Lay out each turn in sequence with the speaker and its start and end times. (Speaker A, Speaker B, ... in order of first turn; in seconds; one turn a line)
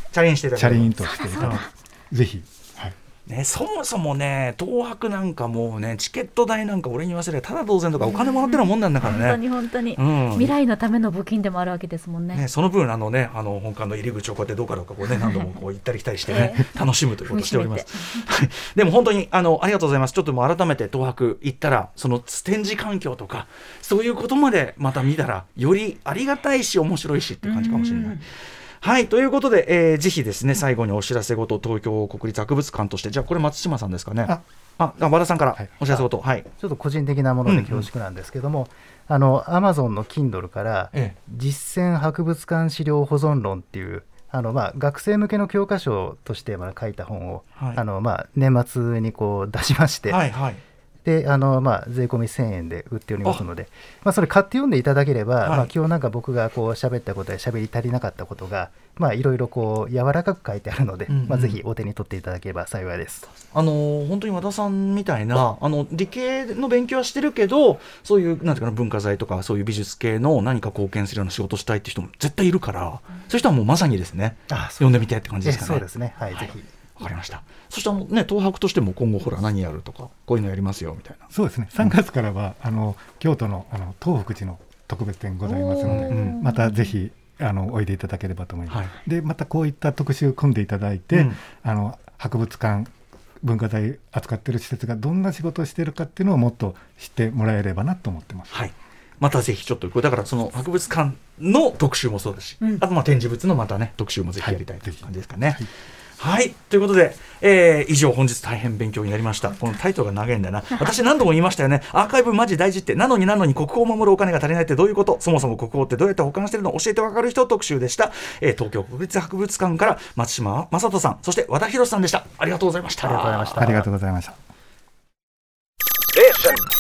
Speaker A: 0.1-1.6
Speaker B: 0.6-3.0
Speaker C: 1.0-1.7
Speaker A: 3.3-9.4
Speaker C: 8.1-12.4
Speaker A: 10.0-10.5
Speaker A: 12.3-36.5
Speaker C: 15.1-15.5
Speaker C: 16.3-16.7
Speaker C: 17.3-18.2
Speaker C: 27.4-28.2
Speaker D: 36.6-50.2
Speaker A: 37.5-37.9
Speaker A: 47.6-47.8
Speaker A: 50.1-50.6
Speaker D: 51.0-63.3
Speaker A: 55.4-55.7
Speaker A: 61.1-61.6
Speaker A: 63.5-81.3
Speaker D: 74.5-74.9
Speaker D: 75.4-76.7
Speaker B: 81.3-92.9
Speaker C: 85.5-86.9
Speaker A: 86.1-86.4
Speaker A: 91.1-91.4
Speaker B: 93.4-98.5
Speaker A: 98.5-105.7
Speaker B: 104.4-105.7
Speaker A: 106.2-123.8
Speaker D: 123.0-123.9
Speaker B: 123.6-124.4
Speaker A: 126.3-126.6